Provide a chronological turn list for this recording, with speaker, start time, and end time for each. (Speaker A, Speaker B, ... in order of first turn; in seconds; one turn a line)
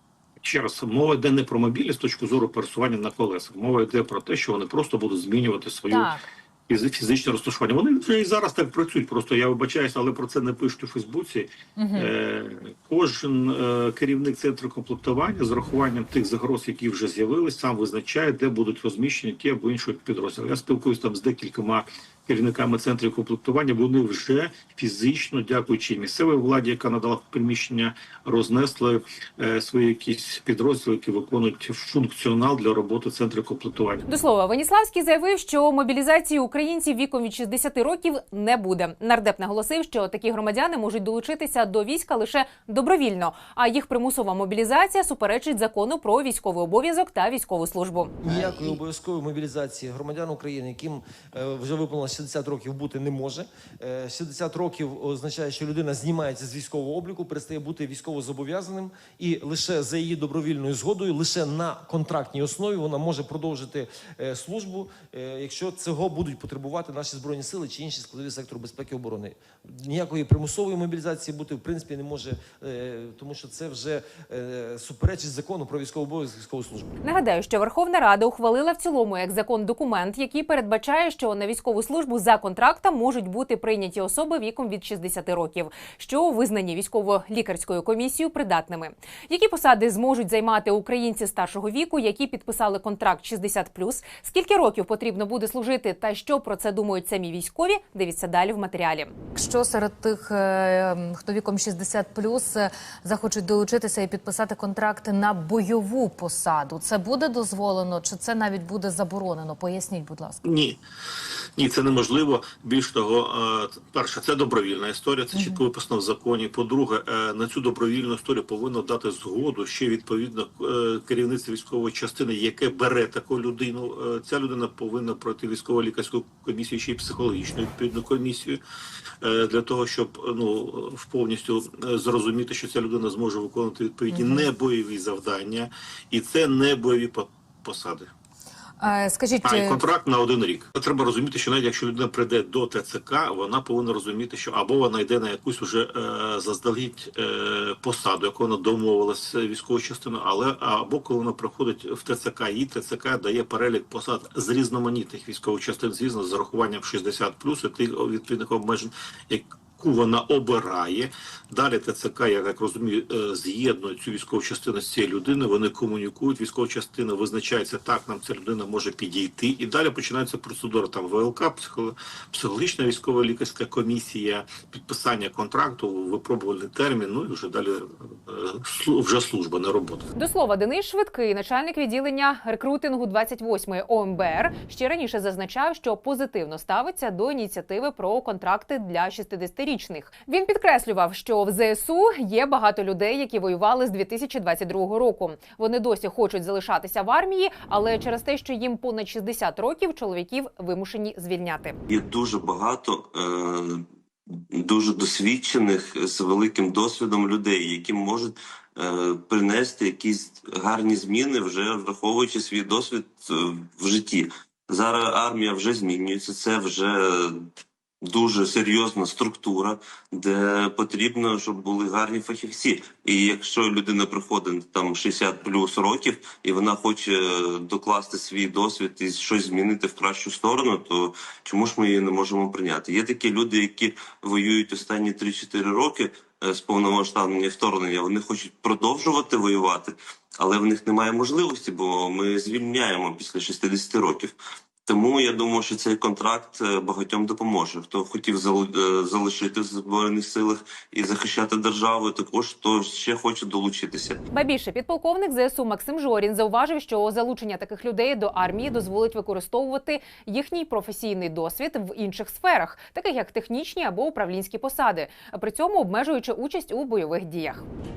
Speaker A: 0.4-34.0
Speaker B: 5.9-6.2
Speaker B: 11.8-12.1
Speaker C: 34.1-48.1
Speaker D: 48.2-76.9
Speaker C: 77.0-99.1
Speaker B: 99.3-110.4
Speaker A: 110.4-110.8
Speaker A: 111.6-128.6
Speaker B: 115.3-115.6
Speaker A: 129.2-138.1
Speaker B: 134.1-134.4
Speaker B: 138.8-139.8
Speaker A: 139.4-180.1
Speaker C: 180.1-201.8
Speaker E: 201.9-203.8
Speaker E: 204.5-217.4
Speaker E: 218.0-244.3
Speaker E: 244.8-254.2
Speaker C: 254.3-267.6